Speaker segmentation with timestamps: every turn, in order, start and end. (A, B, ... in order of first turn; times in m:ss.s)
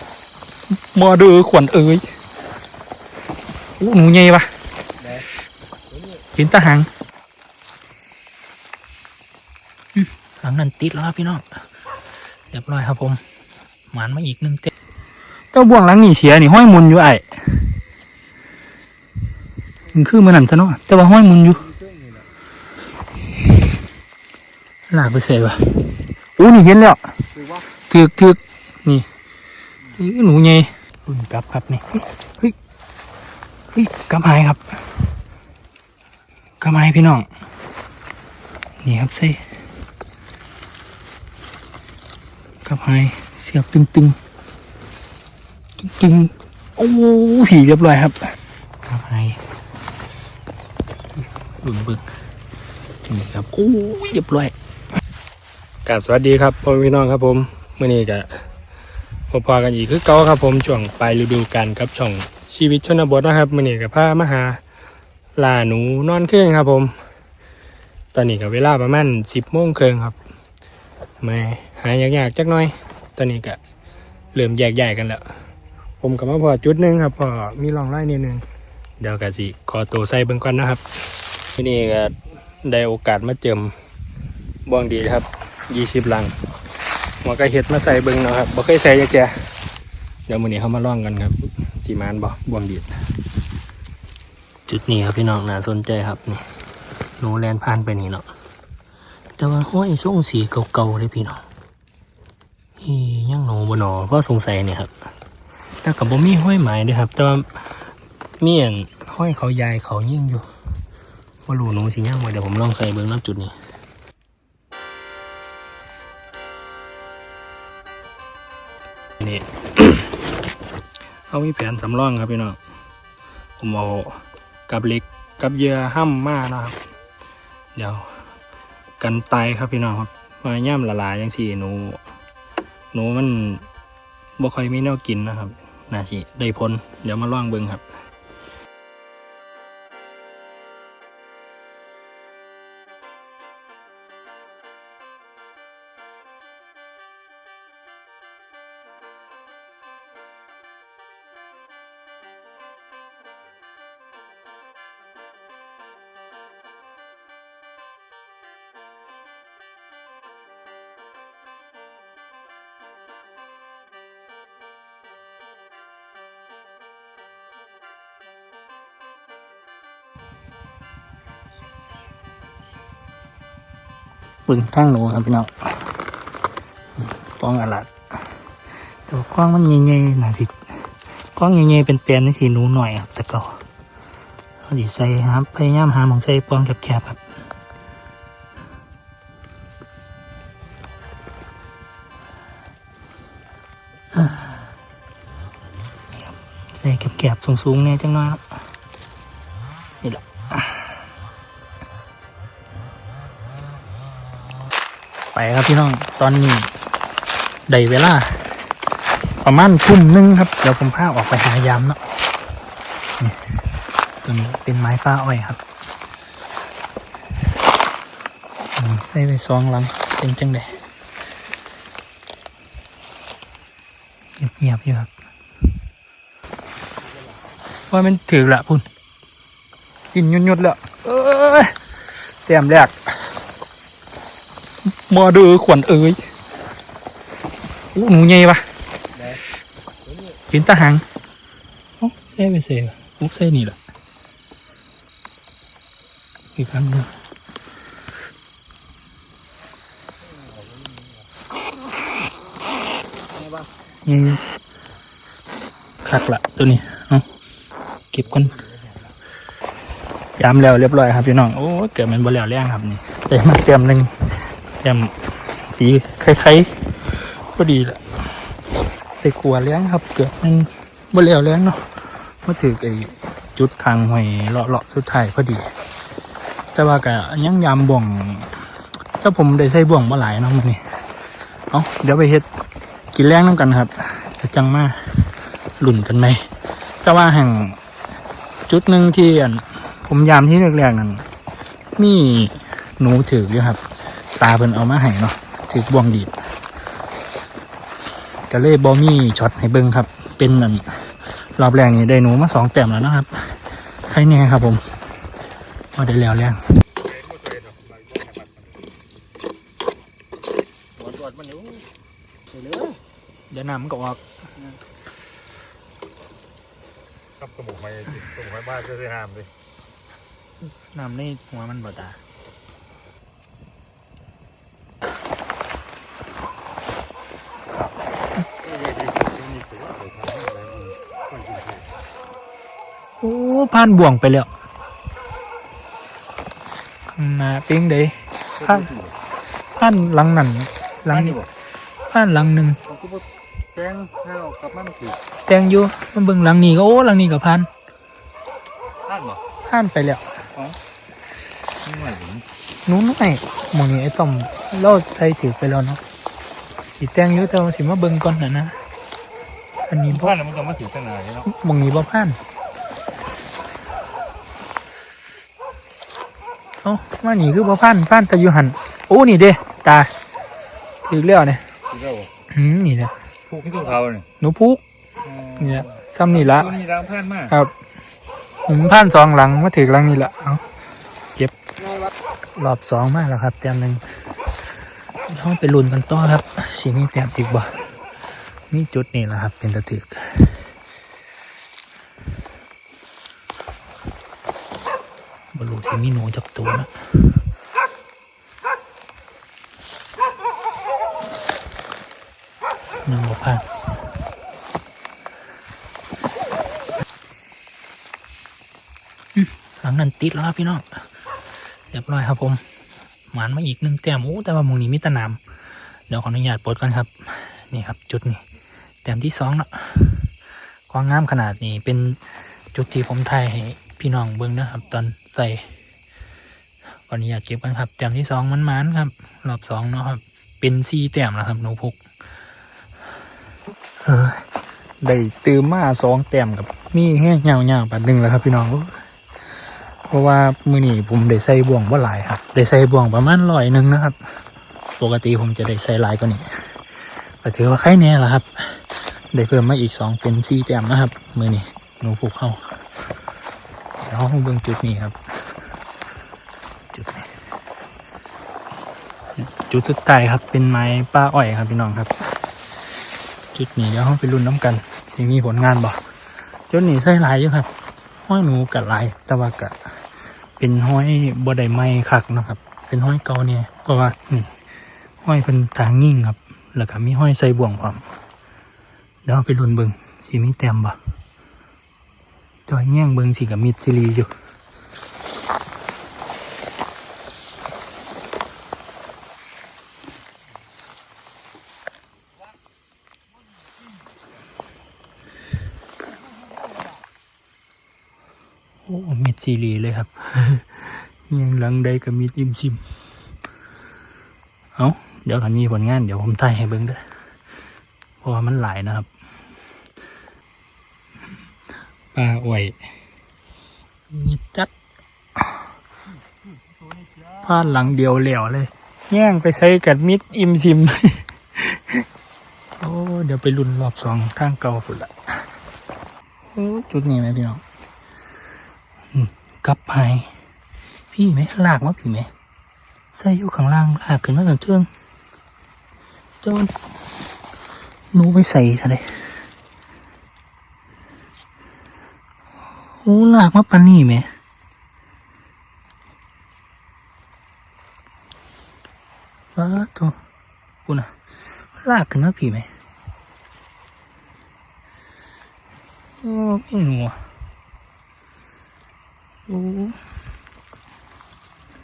0:00.7-0:02.1 A
0:03.8-0:04.5 A
0:05.0-0:05.3 B
0:06.4-0:06.9 A
0:10.0-0:11.6 A
0:12.5-0:13.2 A
0:13.9-0:14.7 A
0:15.5-0:17.7 A
0:19.9-0:21.6 A
0:21.5-0:22.3 B
0:24.9-0:27.0 A
0:27.3-0:27.7 B
0:27.9-0:29.1 A
0:30.0-0:32.6 A
0:33.7-0:34.9 A
0:36.6-0:37.3 A
0:38.8-0:39.4 A
0:42.6-0:44.2 A
0:45.8-0:49.4 A
0:51.6-0:52.0 A
0:53.1-0:54.5 A
0:55.9-0:58.4 A
0:59.3-1:04.6 A
1:05.4-1:07.0 A
1:08.1-1:10.2 A
1:11.2-1:13.6 A
1:14.3-1:15.3 A
1:16.0-1:18.4 A
1:19.0-1:20.8 A
1:21.6-1:23.8 A
1:24.6-1:26.4 A
1:27.2-1:29.5 A
1:30.3-1:32.9 A
1:34.7-1:36.5 A
1:37.2-1:38.3 A
1:39.4-1:41.4 A
1:42.8-1:44.9 A
1:45.8-1:47.6 A
1:48.4-1:50.5 A
1:51.4-1:53.6 A
1:59.2-2:00.1 A
2:01.3-2:02.6 A
2:03.6-2:06.8 A
2:07.8-2:08.1 A
2:09.0-2:12.0 A
2:12.9-2:13.6 A
2:14.4-2:17.8 A
2:54.5-2:55.9 A
2:57.0-2:57.9 A
2:59.1-3:03.6 A
3:04.7-3:07.2 A
3:14.1-3:14.6 A
3:16.8-3:18.4 A
3:20.0-3:20.8 A
3:25.3-3:26.7 A
3:27.7-3:28.6 A
3:29.4-3:32.0 A
3:33.2-3:33.5 A
3:34.2-3:35.6 A
3:38.8-3:40.8 A
3:44.4-3:45.1 A
3:47.0-3:47.4 B
3:47.9-3:48.9 A
3:50.1-3:51.8 A
3:52.4-3:53.0 A
3:54.9-3:56.2 A
3:57.9-3:58.6 A
3:59.2-3:59.4 B
4:00.0-4:00.4 B
4:00.5-4:01.0 A
4:02.0-4:03.8 A
4:06.6-4:07.1 A
4:10.2-4:11.3 B
4:13.3-4:13.7 B
4:14.0-4:14.4 A
4:16.0-4:17.3 A
4:18.1-4:18.6 A
4:18.4-4:19.1 B
4:20.4-4:24.1 A
4:24.8-4:28.4 A
4:29.2-4:31.9 A
4:32.4-4:35.6 A
4:36.7-4:38.6 A
4:39.2-4:40.8 A
4:41.7-4:42.5 A
4:43.1-4:45.3 A
4:45.8-4:46.5 A
4:47.0-4:47.8 A
4:48.7-4:51.2 A
4:52.0-4:53.8 A
4:54.4-4:56.3 A
4:58.5-5:00.8 A
5:01.6-5:04.8 A
5:06.0-5:06.6 A
5:07.0-5:08.8 C
5:11.0-5:11.8 B
5:12.5-5:13.0 B
5:13.5-5:14.2 A
5:17.4-5:19.5 C
5:20.8-5:22.2 A
5:28.6-5:31.9 C
5:33.2-5:34.5 A
5:37.1-5:38.9 A
5:38.6-5:39.2 C
5:39.8-5:41.4 A
5:41.1-5:41.5 C
5:42.1-5:42.8 A
5:42.9-5:45.2 C
5:45.5-5:47.7 A
5:49.1-5:49.4 C
5:49.6-5:50.3 A
5:51.8-5:52.5 C
5:52.9-5:56.0 A
5:57.0-5:58.8 A
5:59.9-6:00.3 A
6:00.1-6:01.5 C
6:01.5-6:02.4 A
6:06.8-6:10.1 A
6:11.0-6:11.6 A
6:11.9-6:12.3 C
6:12.5-6:13.1 A
6:13.5-6:14.3 C
6:14.4-6:14.8 A
6:15.3-6:17.5 C
6:15.6-6:16.7 A
6:18.7-6:20.6 A
6:21.8-6:22.1 B
6:22.6-6:24.0 A
6:25.3-6:27.8 A
6:28.7-6:30.6 A
6:35.5-6:36.9 A
6:43.0-6:43.7 A
6:49.4-6:51.0 A
6:51.9-6:52.6 A
6:53.3-6:55.4 A
6:56.1-6:58.4 A
6:59.0-7:00.3 A
7:00.9-7:02.2 A
7:02.7-7:05.7 A
7:07.1-7:12.0 A
7:14.0-7:14.5 A
7:15.0-7:19.0 A
7:20.1-7:24.2 A
7:25.0-7:26.5 A
7:27.4-7:32.6 A
7:34.0-7:35.2 A
7:36.9-7:37.3 A
7:39.4-7:42.2 A
7:43.5-7:46.0 A
7:46.7-7:47.7 A
7:48.2-7:49.8 A
7:50.6-7:54.5 A
7:55.2-7:58.0 A
7:59.2-8:01.0 A
8:02.7-8:04.3 A
8:18.9-8:20.8 A
8:21.3-8:22.8 A
8:24.8-8:27.0 A
8:28.2-8:29.1 A
8:32.1-8:32.8 A
8:34.1-8:34.7 A
8:37.4-8:42.1 A
8:42.8-8:45.1 A
8:46.6-8:47.6 A
8:49.1-8:50.3 A
8:51.1-8:52.3 A
8:53.1-8:54.9 A
8:56.4-8:56.7 A
8:58.1-8:59.2 A
9:03.0-9:04.3 A
9:09.6-9:10.2 A
9:11.8-9:12.7 A
9:16.2-9:17.2 A
9:19.5-9:20.0 A